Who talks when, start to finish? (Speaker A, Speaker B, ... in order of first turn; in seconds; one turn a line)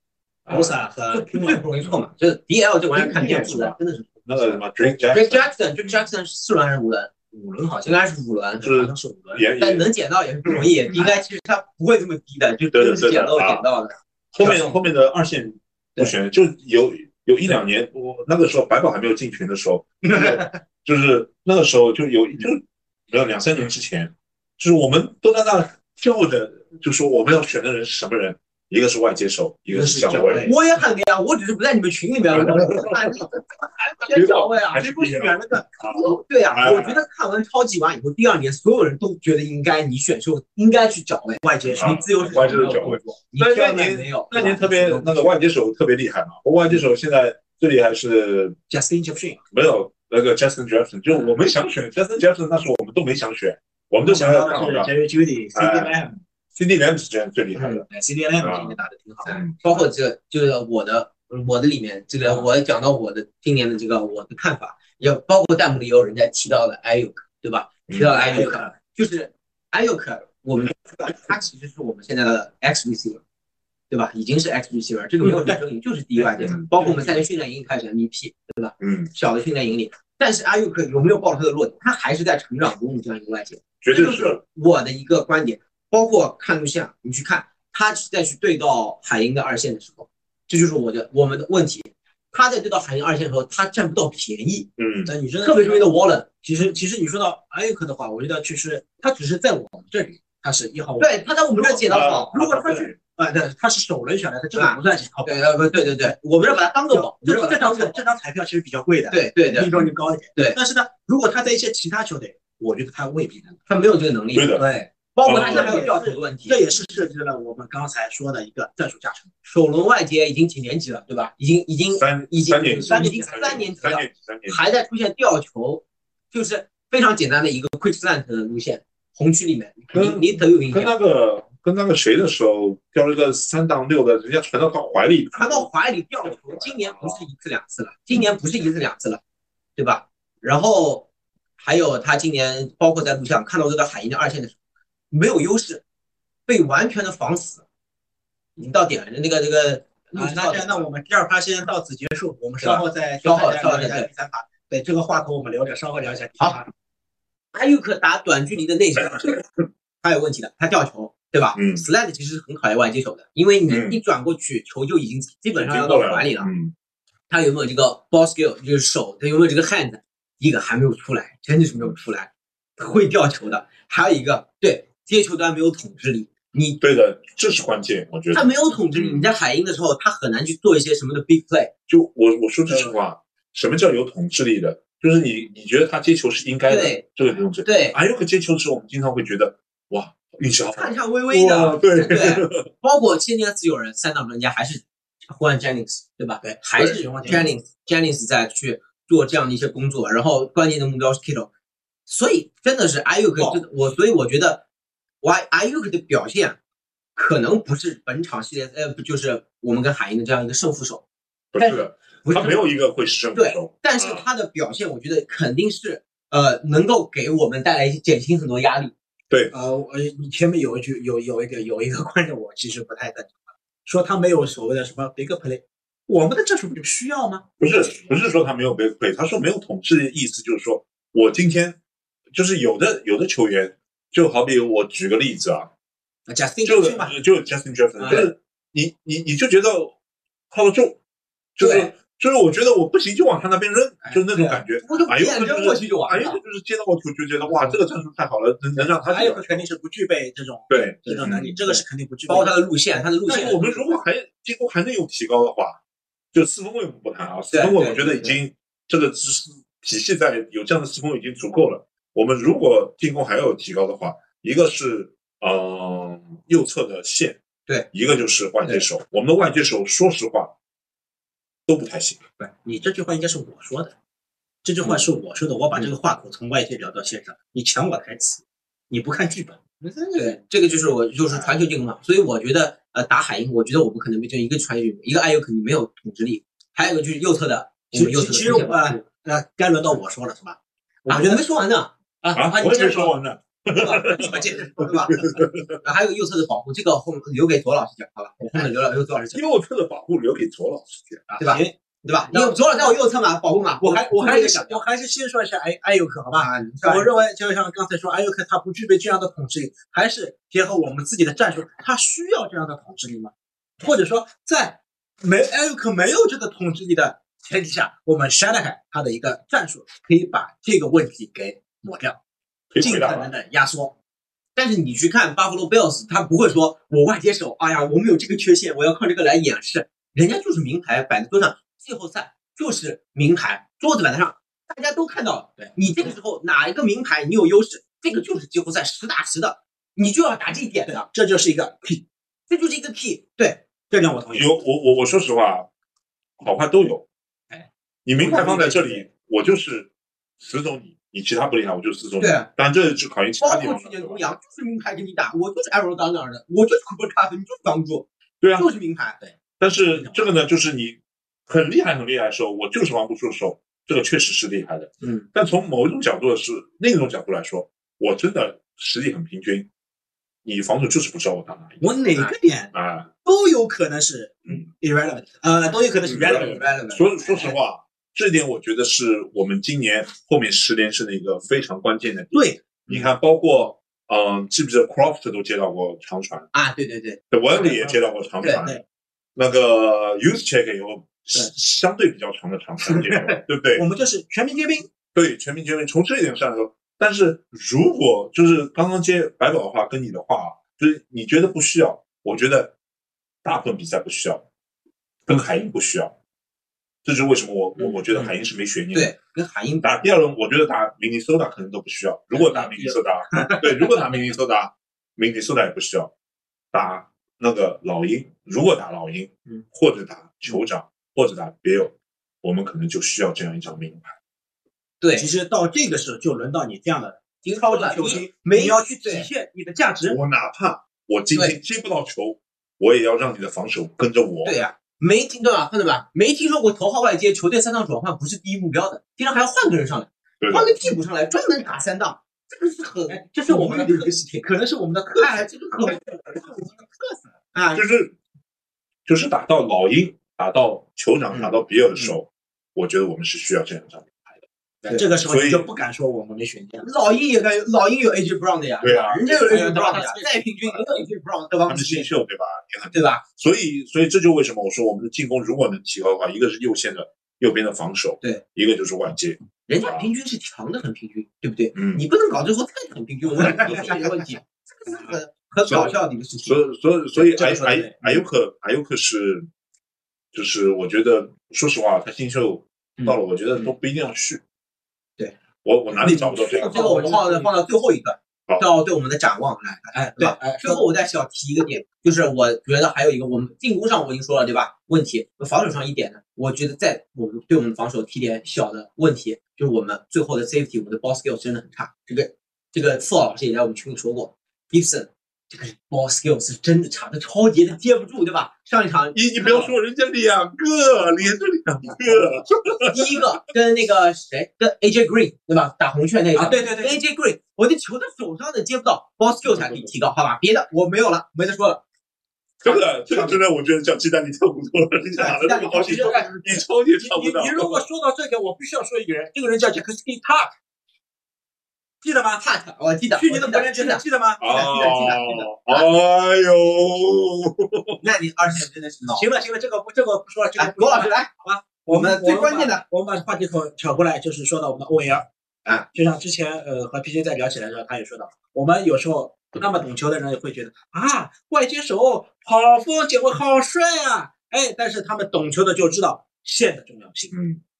Speaker A: 0.5-0.8
Speaker B: 0.5-1.6
Speaker C: 1.1-7.1
Speaker A: 3.0-6.0
Speaker B: 7.3-8.0
Speaker C: 7.8-8.7
Speaker B: 8.6-9.4
Speaker A: 8.6-9.9
Speaker C: 9.6-14.7
Speaker A: 10.4-11.1
Speaker A: 12.7-13.7
Speaker A: 14.3-30.5
Speaker B: 29.7-30.6
Speaker C: 30.4-33.3
Speaker A: 32.3-33.0
Speaker B: 33.8-36.2
Speaker C: 34.1-34.4
Speaker A: 34.1-37.0
Speaker C: 36.0-45.4
Speaker B: 41.4-42.8
Speaker A: 41.7-48.5
Speaker B: 48.7-49.4
Speaker A: 49.5-54.9
Speaker B: 54.0-56.2
Speaker A: 55.5-56.0
Speaker A: 56.5-57.9
Speaker B: 57.9-59.9
Speaker A: 58.4-58.8
Speaker C: 59.3-73.2
Speaker A: 67.9-68.2
Speaker B: 68.1-68.7
Speaker C: 73.9-94.7
Speaker B: 75.2-75.6
Speaker B: 76.2-77.0
Speaker A: 76.4-77.0
Speaker A: 78.8-79.1
Speaker A: 83.8-84.4
Speaker A: 94.8-95.1
Speaker B: 95.0-113.6
Speaker C: 95.4-96.3
Speaker C: 101.0-102.3
Speaker A: 101.9-103.0
Speaker C: 104.5-108.0
Speaker C: 109.1-109.7
Speaker C: 113.7-116.6
Speaker A: 114.3-114.7
Speaker B: 114.6-119.3
Speaker A: 115.2-115.9
Speaker C: 119.5-130.9
Speaker A: 121.9-124.6
Speaker B: 122.9-123.6
Speaker A: 129.9-135.7
Speaker C: 135.3-139.2
Speaker A: 136.3-137.2
Speaker C: 139.8-141.1
Speaker C: 141.6-144.6
Speaker C: 145.1-145.8
Speaker C: 146.5-147.6
Speaker C: 148.6-150.9
Speaker B: 150.1-156.7
Speaker C: 152.6-154.1
Speaker C: 157.5-159.4
Speaker A: 159.0-159.3
Speaker C: 160.0-166.5
Speaker A: 161.6-161.8
Speaker A: 163.7-164.0
Speaker A: 165.5-166.7
Speaker C: 167.3-176.8
Speaker A: 176.8-179.3
Speaker C: 178.3-181.7
Speaker A: 181.9-192.7
Speaker C: 186.7-187.1
Speaker C: 187.6-188.0
Speaker C: 190.7-201.5
Speaker B: 196.4-197.6
Speaker A: 197.3-197.6
Speaker C: 202.1-204.6
Speaker C: 205.2-206.6
Speaker C: 207.1-211.0
Speaker A: 211.5-214.2
Speaker C: 211.6-212.7
Speaker C: 213.3-218.9
Speaker B: 219.5-228.2
Speaker A: 227.6-231.8
Speaker A: 232.3-235.7
Speaker B: 236.3-237.1
Speaker A: 236.6-239.9
Speaker B: 238.0-238.3
Speaker C: 238.0-238.3
Speaker A: 240.5-241.0
Speaker A: 241.6-249.7
Speaker C: 241.6-241.9
Speaker C: 244.3-246.4
Speaker B: 249.0-252.6
Speaker A: 250.7-251.6
Speaker C: 251.0-253.6
Speaker B: 253.3-253.8
Speaker A: 253.3-255.8
Speaker A: 256.3-267.4
Speaker C: 257.5-258.4
Speaker A: 267.9-270.6
Speaker A: 271.7-272.2
Speaker B: 272.6-273.9
Speaker B: 274.6-280.4
Speaker C: 280.2-289.0
Speaker B: 281.3-281.6
Speaker B: 287.9-291.4
Speaker C: 291.1-291.9
Speaker B: 292.2-293.1
Speaker A: 292.3-294.4
Speaker C: 293.8-295.2
Speaker B: 293.9-295.4
Speaker A: 295.1-295.8
Speaker C: 295.8-299.4
Speaker A: 299.3-301.2
Speaker B: 301.3-301.8
Speaker C: 301.4-304.8
Speaker B: 302.3-303.0
Speaker B: 303.8-322.2
Speaker C: 306.3-307.2
Speaker A: 322.7-323.3
Speaker B: 322.8-323.9
Speaker C: 324.6-341.1
Speaker B: 340.9-342.0
Speaker C: 342.5-343.6
Speaker B: 343.9-344.6
Speaker A: 344.3-345.7
Speaker A: 346.4-347.1
Speaker A: 348.1-354.4
Speaker B: 348.2-349.0
Speaker C: 348.3-348.7
Speaker C: 352.2-352.5
Speaker C: 353.4-359.2
Speaker A: 358.4-358.7
Speaker A: 359.6-369.7
Speaker B: 359.9-360.3
Speaker A: 370.4-371.9
Speaker B: 371.8-372.7
Speaker A: 372.7-373.1
Speaker B: 373.2-376.7
Speaker A: 376.1-386.5
Speaker C: 376.1-377.6
Speaker B: 382.3-383.0
Speaker C: 386.5-387.2
Speaker A: 387.3-388.8
Speaker B: 387.6-388.0
Speaker C: 388.4-388.7
Speaker A: 389.4-393.8
Speaker B: 393.8-394.9
Speaker A: 395.1-402.7
Speaker A: 403.4-404.4
Speaker A: 405.3-406.1
Speaker A: 407.0-409.1
Speaker C: 407.8-408.3
Speaker C: 408.9-410.0
Speaker A: 409.8-416.1
Speaker C: 412.3-412.9
Speaker A: 416.7-424.1
Speaker C: 425.0-425.3
Speaker B: 425.2-430.2
Speaker C: 427.4-429.3
Speaker A: 430.1-434.6
Speaker C: 434.4-444.4
Speaker A: 440.4-440.9
Speaker B: 443.1-447.2
Speaker C: 445.1-446.1
Speaker C: 447.5-447.8
Speaker A: 447.7-448.1
Speaker A: 449.1-454.4
Speaker C: 451.3-452.1
Speaker C: 454.8-455.1
Speaker B: 454.9-456.9
Speaker A: 455.2-455.7
Speaker C: 456.8-462.1
Speaker A: 458.8-459.7
Speaker B: 459.4-460.8
Speaker A: 461.7-470.1
Speaker C: 462.9-463.2
Speaker C: 469.7-476.6
Speaker A: 471.7-472.1
Speaker A: 475.6-479.5
Speaker B: 477.2-478.2
Speaker A: 480.3-484.4
Speaker C: 483.0-483.7
Speaker A: 485.6-487.2
Speaker C: 485.9-509.7
Speaker B: 486.1-487.5
Speaker B: 489.9-490.8
Speaker A: 509.1-513.1
Speaker C: 512.8-521.8
Speaker B: 516.4-517.0
Speaker A: 522.6-527.9
Speaker C: 525.2-526.3
Speaker B: 525.7-530.5
Speaker B: 532.0-532.4
Speaker C: 532.3-534.0
Speaker B: 533.1-535.4
Speaker A: 534.4-538.0
Speaker C: 538.0-539.3
Speaker B: 539.2-545.3
Speaker C: 540.6-541.3
Speaker C: 541.9-542.8
Speaker B: 545.9-557.4
Speaker A: 557.3-557.6